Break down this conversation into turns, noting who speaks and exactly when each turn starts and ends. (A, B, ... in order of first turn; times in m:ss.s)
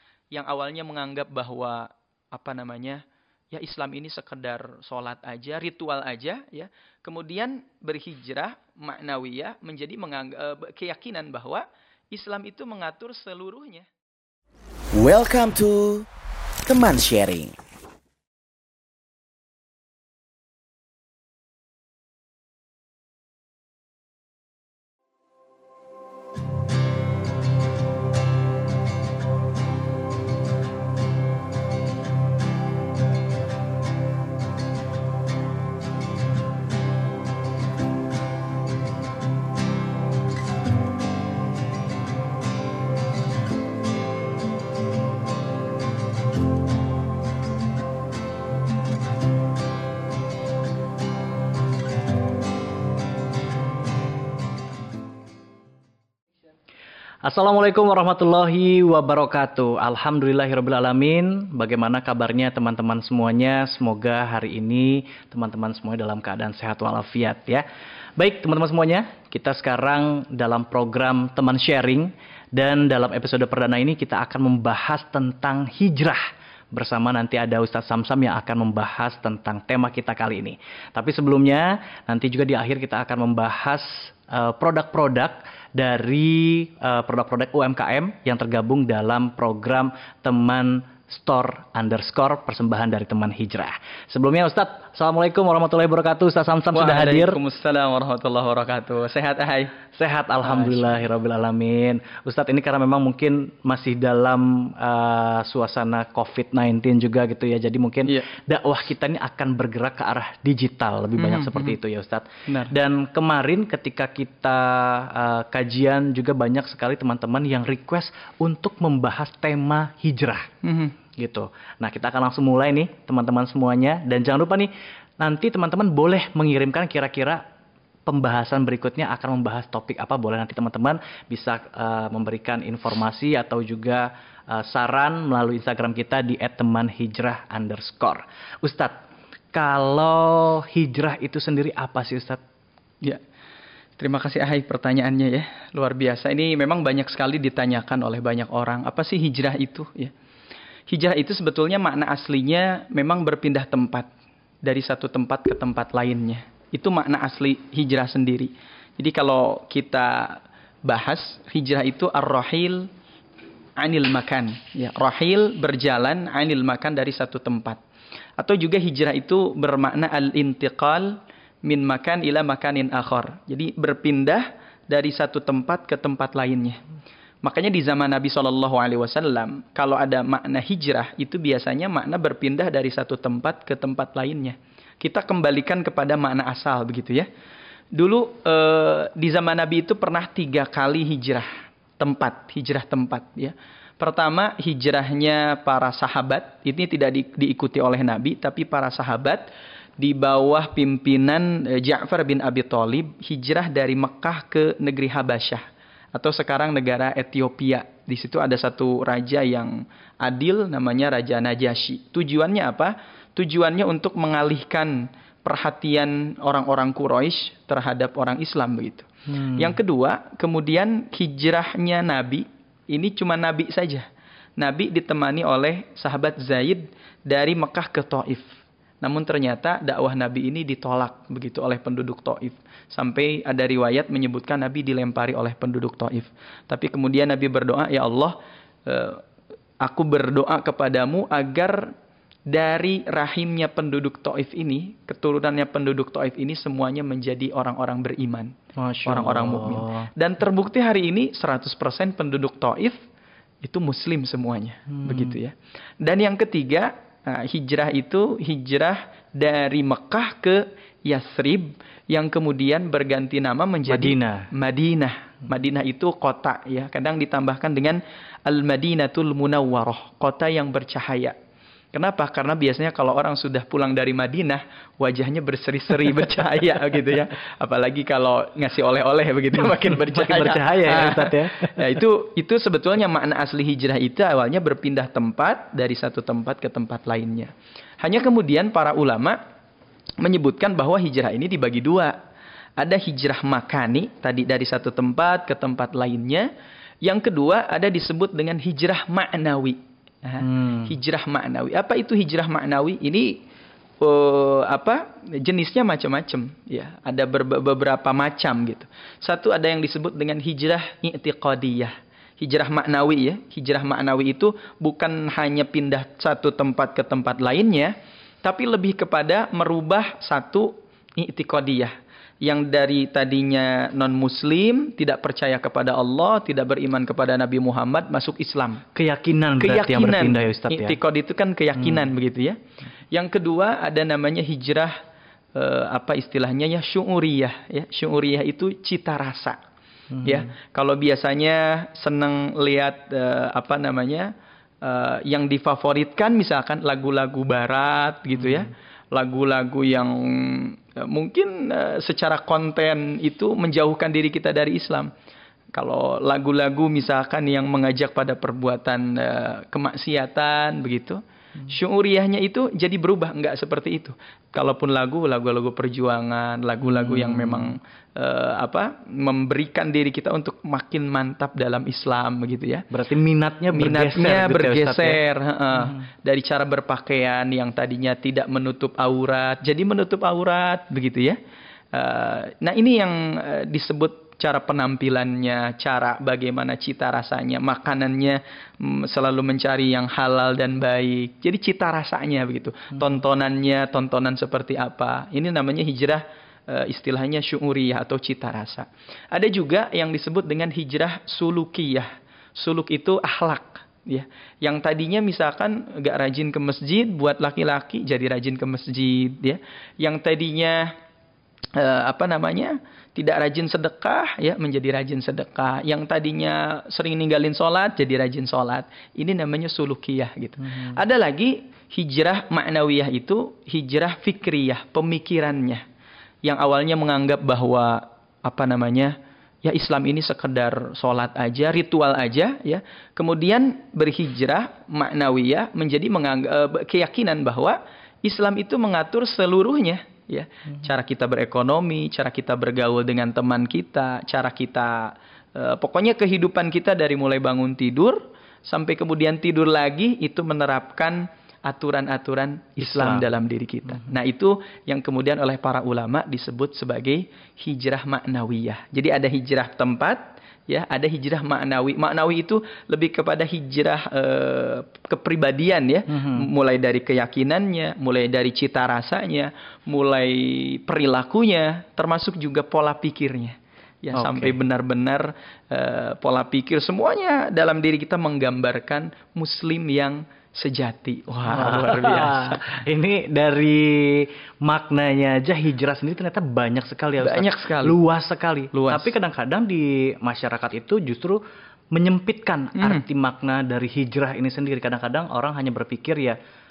0:00.3-0:13.9 A
0:15.0-0:16.1 B
0:16.6-0:17.5 B
0:57.2-1:07.6 C
1:08.2-1:16.2 C
1:16.7-1:37.4 C
1:36.7-1:39.8 A
1:40.0-2:00.5 C
1:40.4-1:40.9 A
1:51.2-1:51.8 A
1:52.5-1:52.7 A
2:00.6-2:01.0 A
2:01.2-2:07.4 C
2:08.1-2:19.0 C
2:19.5-2:22.4 C
2:24.0-2:30.1 A
2:30.9-2:34.1 A
2:34.6-2:42.9 A
2:43.8-2:47.8 A
2:48.4-2:56.8 A
2:57.4-3:07.3 A
3:07.9-3:19.4 A
3:20.0-3:25.6 A
3:26.1-3:44.0 A
3:44.6-3:48.4 A
3:49.0-3:58.3 A
3:58.9-3:59.2 A
3:59.8-4:01.9 A
4:02.5-4:08.5 A
4:08.8-4:10.1 C
4:09.0-4:13.0 A
4:13.6-4:31.4 A
4:15.0-4:15.3 C
4:23.9-4:24.5 C
4:31.9-4:49.4 A
4:39.6-4:42.0 C
4:50.2-4:52.1 A
4:52.8-4:56.5 A
4:57.0-5:03.4 A
5:00.4-5:00.9 C
5:04.0-5:17.9 A
5:18.4-5:28.8 A
5:28.9-5:31.0 C
5:29.6-5:32.6 A
5:33.1-5:34.9 A
5:35.6-5:39.6 A
5:40.2-5:44.3 A
5:44.8-5:55.1 A
5:55.7-6:12.9 A
6:06.8-6:07.7 C
6:12.9-6:15.2 C
6:13.7-6:21.4 A
6:21.9-6:50.9 A
6:51.8-7:05.8 A
7:00.6-7:01.0 C
7:06.4-8:02.6 A
7:32.8-7:33.2 C
7:46.1-7:46.5 C
7:54.2-7:54.6 C
8:01.5-8:11.4 C
8:07.2-8:08.0 A
8:08.7-8:09.1 A
8:11.9-8:16.4 C
8:12.8-8:13.0 A